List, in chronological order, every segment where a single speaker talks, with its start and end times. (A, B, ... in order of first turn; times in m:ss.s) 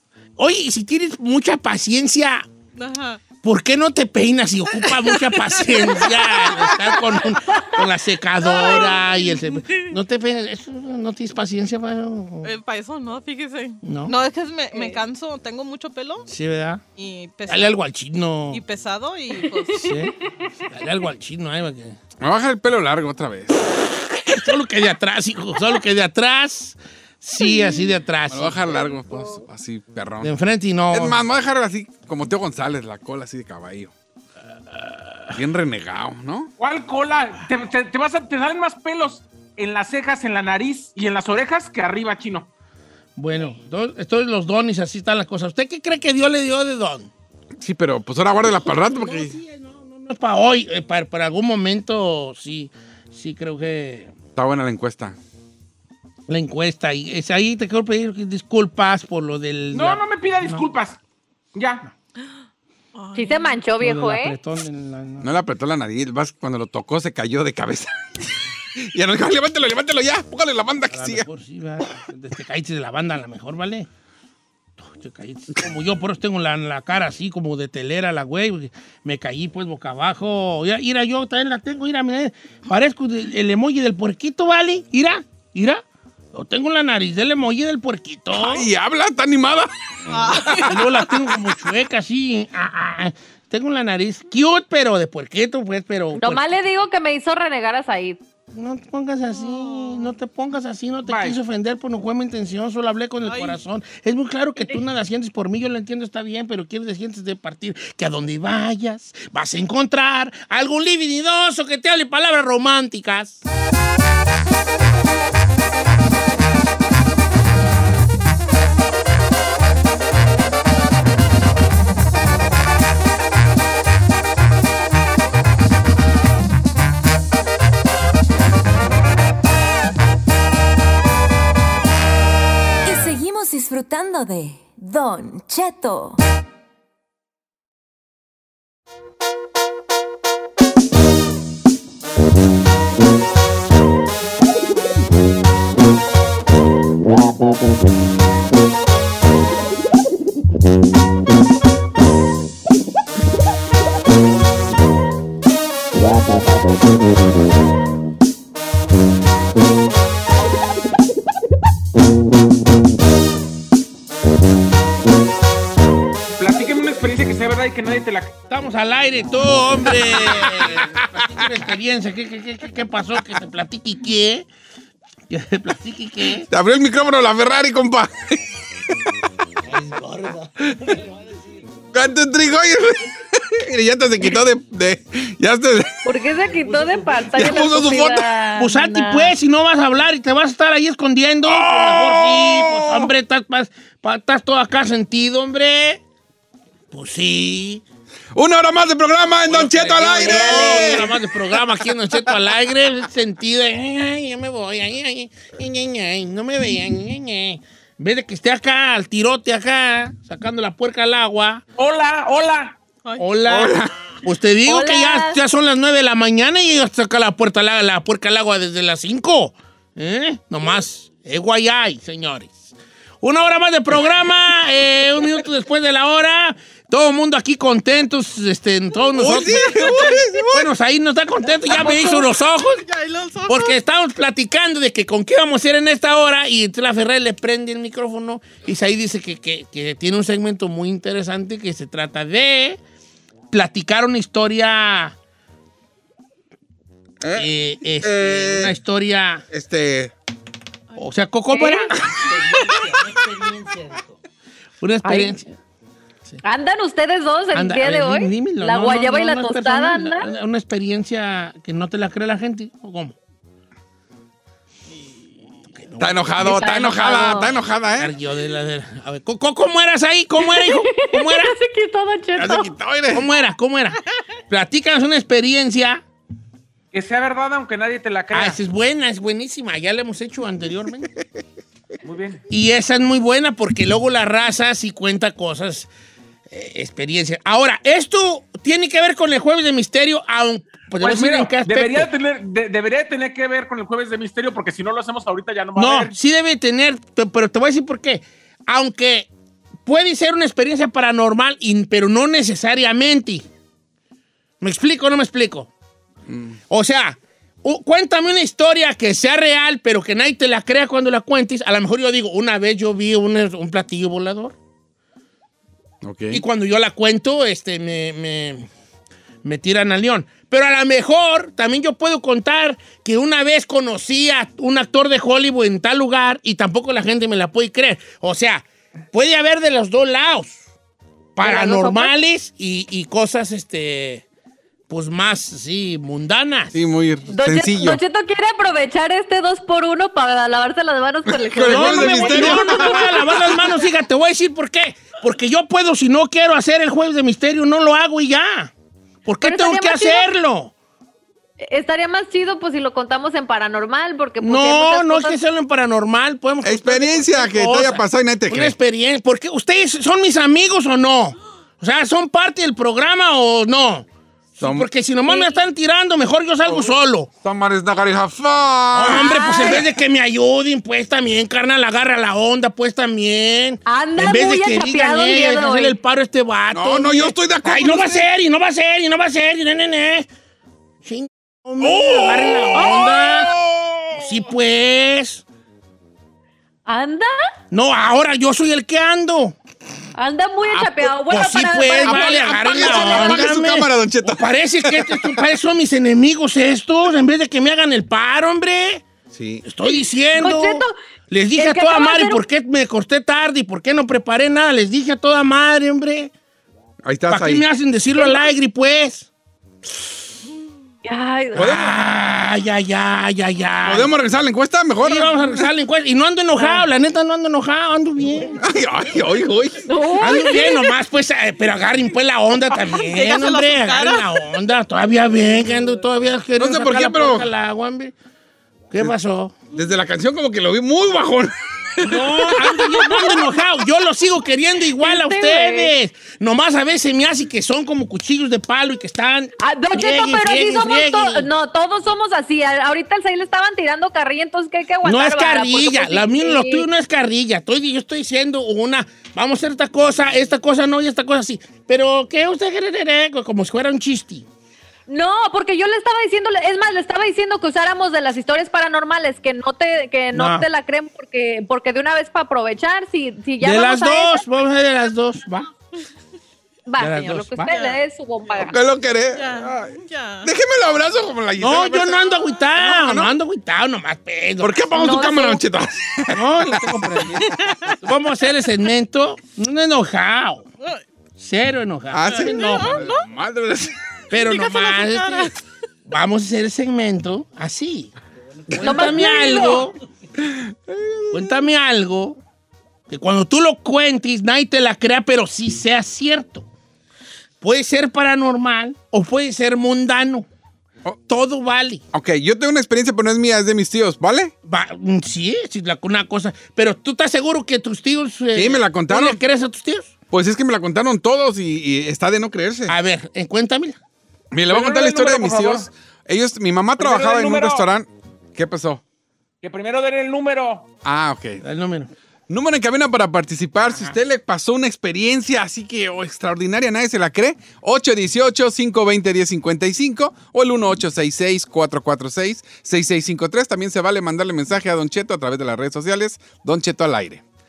0:00.4-0:02.5 A
0:02.8-0:03.2 B
0:03.4-0:12.5 A
0:04.8-0:07.2 B
0:08.4-0:09.9 B
0:12.4-0:16.3 B
0:13.8-0:14.1 A
0:14.7-0:15.0 C
0:16.3-0:16.8 A
0:17.0-0:17.8 B
0:17.5-0:18.6 A
0:18.5-0:20.0 B
0:19.4-0:20.5 C
0:19.8-0:20.2 A
0:20.7-0:22.0 A
0:22.2-0:23.7 D
0:24.1-0:28.7 A
0:27.4-0:27.8 C
0:28.3-0:30.3 D
0:30.2-0:31.2 A
0:30.9-0:33.9 D
0:34.7-0:35.3 A
0:35.3-0:36.5 D
0:36.6-0:42.5 E
0:43.2-0:47.1 A
0:47.6-0:49.4 D
0:48.4-0:54.1 A
0:54.4-0:55.2 D
0:56.3-1:00.6 A
0:59.7-1:01.0 E
1:01.5-1:01.9 E
1:03.0-1:03.6 B
1:03.2-1:04.4 C
1:03.8-1:05.3 A
1:05.2-1:11.3 D
1:10.9-1:13.9 A
1:14.8-1:28.7 A
1:28.4-1:30.7 D
1:30.1-1:31.1 B
1:30.5-1:36.5 A
1:36.2-1:38.2 C
1:38.5-1:53.4 A
1:39.3-1:40.1 B
1:41.1-1:41.4 E
1:43.2-1:43.6 B
2:12.8-2:16.2 F
2:46.4-2:48.4 E
2:48.5-2:54.5 A
2:50.1-2:51.5 D
2:55.3-2:56.5 A
2:56.5-2:58.4 D
2:59.7-3:00.5 A
3:01.9-3:06.0 D
3:06.0-3:09.4 C
3:07.3-3:08.3 D
3:08.6-3:16.0 A
3:11.4-3:13.1 D
3:16.9-3:17.8 A
3:18.4-3:21.6 D
3:19.5-3:31.6 A
3:31.8-3:32.8 E
3:33.2-3:52.8 A
3:33.4-3:34.0 D
3:34.7-3:35.4 C
3:49.2-3:50.7 D
3:49.7-3:50.2 B
3:51.6-3:53.8 B
3:53.5-4:02.8 A
4:03.5-4:05.2 A
4:07.2-4:07.5 D
4:07.3-4:09.4 A
4:08.0-4:08.7 D
4:09.5-4:10.1 D
4:11.0-4:14.0 A
4:11.5-4:11.9 C
4:12.0-4:13.2 D
4:14.8-4:15.6 A
4:15.0-4:15.4 C
4:16.4-4:20.3 C
4:17.5-4:23.2 A
4:25.7-4:26.7 A
4:26.0-4:28.1 D
4:26.4-4:27.6 C
4:28.0-4:31.6 A
4:30.4-4:32.7 C
4:32.4-4:33.3 D
4:33.1-4:34.0 A
4:34.5-4:36.0 A
4:36.9-4:38.6 E
4:38.3-4:41.1 A
4:42.0-4:42.4 E
4:42.5-4:45.9 A
4:46.5-4:52.1 A
4:51.0-4:56.2 E
4:55.8-4:59.3 A
4:59.9-5:03.5 A
5:04.6-5:05.7 A
5:06.3-5:06.6 D
5:06.7-5:14.6 A
5:16.0-5:16.4 D
5:16.3-5:18.7 A
5:19.4-5:30.6 A
5:31.4-5:34.2 A
5:31.4-5:32.1 C
5:34.9-5:36.8 A
5:36.7-5:38.0 D
5:37.3-5:43.8 C
5:41.3-5:43.4 D
5:41.6-5:48.7 A
5:49.3-5:50.7 A
5:49.4-5:50.3 C
5:51.6-5:55.4 C
5:54.4-6:07.3 A
5:56.6-5:58.8 D
6:04.6-6:04.9 D
6:05.3-6:05.6 C
6:06.7-6:09.8 D
6:08.9-6:20.3 A
6:09.1-6:09.9 C
6:13.9-6:16.0 C
6:16.7-6:18.3 D
6:21.0-6:23.5 A
6:21.8-6:24.5 D
6:22.8-6:23.2 C
6:24.1-6:25.4 A
6:26.9-6:27.4 C
6:27.7-6:29.6 A
6:30.2-6:33.5 C
6:30.7-6:31.1 D
6:31.3-6:39.0 A
6:31.9-6:35.4 D
6:39.3-6:39.6 D
6:39.6-6:46.3 A
6:39.8-6:41.0 C
6:41.6-6:42.4 C
6:47.0-6:47.7 D
6:47.3-6:49.3 A
6:48.2-6:48.5 C
6:51.0-6:51.8 C
6:51.5-6:54.1 A
6:51.6-6:52.0 D
6:53.8-6:55.7 D
6:55.0-6:58.7 A
6:56.6-6:56.8 C
6:58.6-6:59.9 D
6:59.9-7:00.9 C
7:00.2-7:08.1 A
7:02.7-7:04.4 B
7:06.6-7:07.5 D
7:08.9-7:09.6 A
7:09.7-7:13.2 D
7:12.0-7:21.5 A
7:13.1-7:13.4 C
7:15.0-7:15.9 C
7:19.6-7:26.9 C
7:25.0-7:34.5 A
7:35.1-7:44.4 C
7:40.3-7:40.7 A
7:43.6-7:45.7 A
7:46.9-7:48.8 C
7:47.0-7:47.8 A
7:47.7-7:48.0 B
7:48.6-7:53.3 D
7:49.3-7:50.5 B
7:51.6-7:54.8 A
7:54.6-7:57.8 D
7:54.9-7:55.6 C
7:56.3-7:57.5 A
7:57.6-7:57.9 B
7:58.0-8:00.7 A
8:01.4-8:03.0 A
8:02.1-8:04.0 D
8:02.4-8:03.2 B
8:04.3-8:05.5 A
8:04.4-8:05.5 B
8:06.1-8:08.1 A
8:08.7-8:09.1 D
8:08.7-8:10.0 A
8:08.8-8:09.9 C
8:10.4-8:11.6 D
8:11.3-8:12.4 A
8:13.1-8:16.7 A
8:17.6-8:20.5 A
8:21.3-8:22.0 A
8:22.1-8:24.5 D
8:24.6-8:30.1 A
8:28.5-8:29.4 D
8:30.3-8:32.9 D
8:32.9-8:34.0 A
8:34.5-8:39.0 D
8:34.7-8:35.9 E
8:37.0-8:37.8 E
8:39.6-8:40.9 E
8:41.0-8:41.6 D
8:41.6-8:42.1 A
8:42.5-8:57.4 D